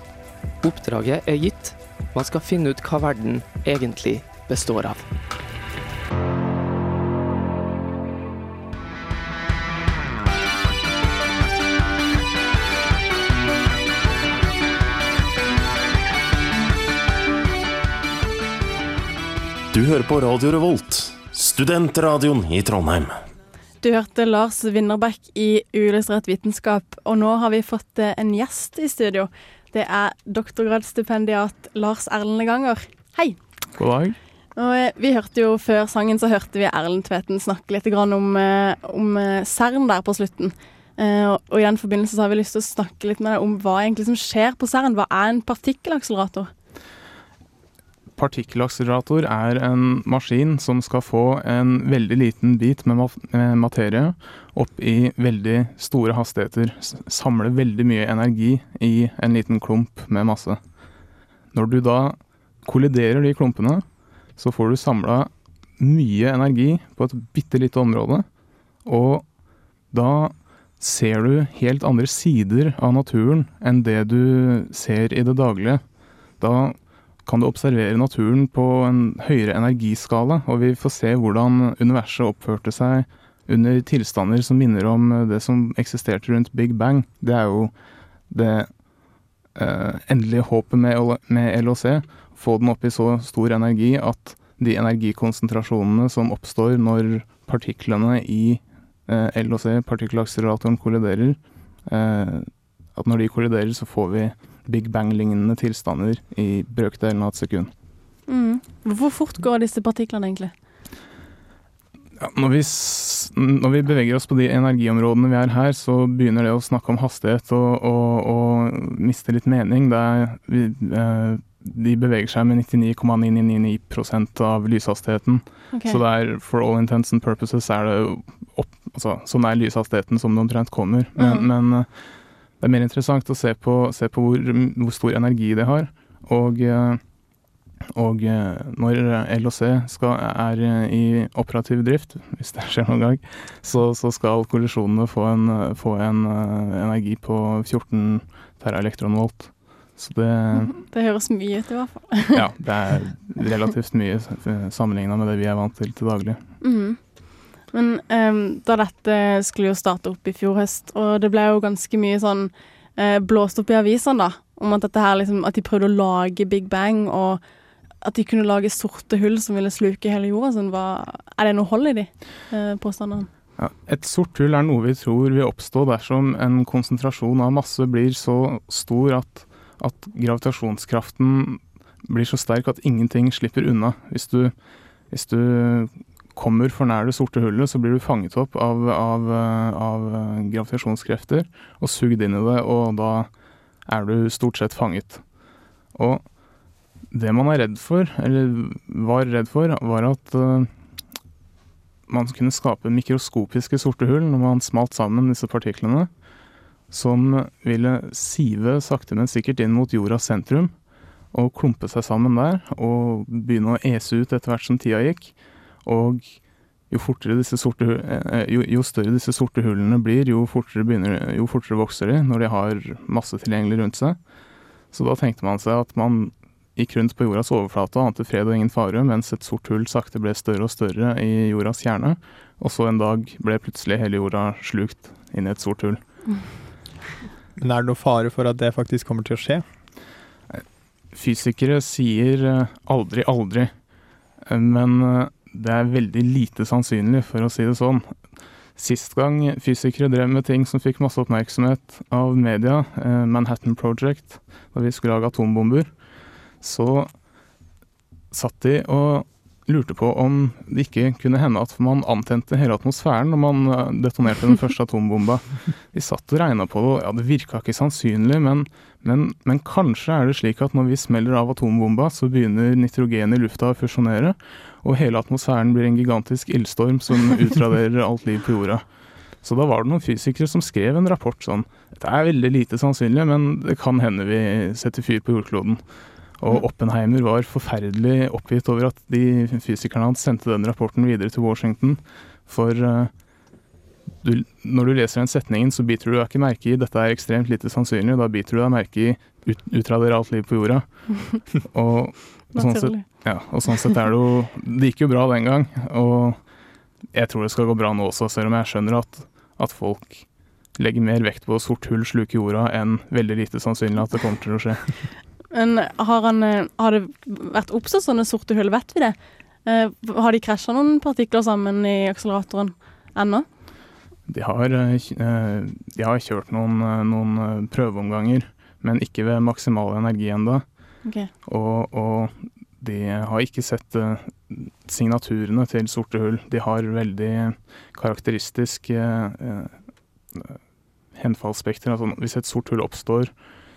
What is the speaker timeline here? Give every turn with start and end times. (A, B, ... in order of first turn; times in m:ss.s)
0:00.6-0:05.0 A
0:19.7-0:23.2 B
0:23.8-0:33.4 C
0:33.8-0:34.2 D
0:34.6-0:46.5 C
0:48.2-1:00.6 D
1:01.5-1:03.8 D
1:04.4-1:08.2 D
1:08.8-1:09.3 D
1:09.9-1:15.8 D
1:16.4-1:27.7 D
1:28.3-1:28.7 D
1:29.6-1:47.7 D
1:48.3-1:50.5 C
1:52.2-2:11.9 D
2:05.7-2:06.0 C
2:11.2-2:11.5 C
2:12.6-2:17.0 D
2:17.9-2:30.7 D
2:30.7-2:32.4 C
2:32.3-2:36.4 D
2:36.6-2:37.0 C
2:37.7-2:47.4 C
2:48.0-2:53.3 C
2:53.6-3:04.5 D
3:05.1-3:13.3 D
3:13.9-3:15.2 D
3:16.0-3:16.2 D
3:17.1-3:20.7 D
3:22.1-3:26.1 D
3:26.9-3:30.7 D
3:31.3-3:36.4 D
3:36.9-3:44.2 D
3:44.9-3:56.0 D
3:57.6-3:59.6 E
4:00.5-4:03.7 D
4:04.4-4:08.1 D
4:08.8-4:15.9 D
4:16.6-4:17.1 D
4:18.3-4:38.8 D
4:39.4-4:45.8 D
4:46.4-4:53.1 D
4:54.2-5:06.4 D
5:02.6-5:03.0 C
5:07.1-5:14.9 D
5:15.5-5:23.5 C
5:24.3-5:30.6 D
5:31.4-5:39.8 D
5:40.3-5:40.6 D
5:41.2-5:43.3 D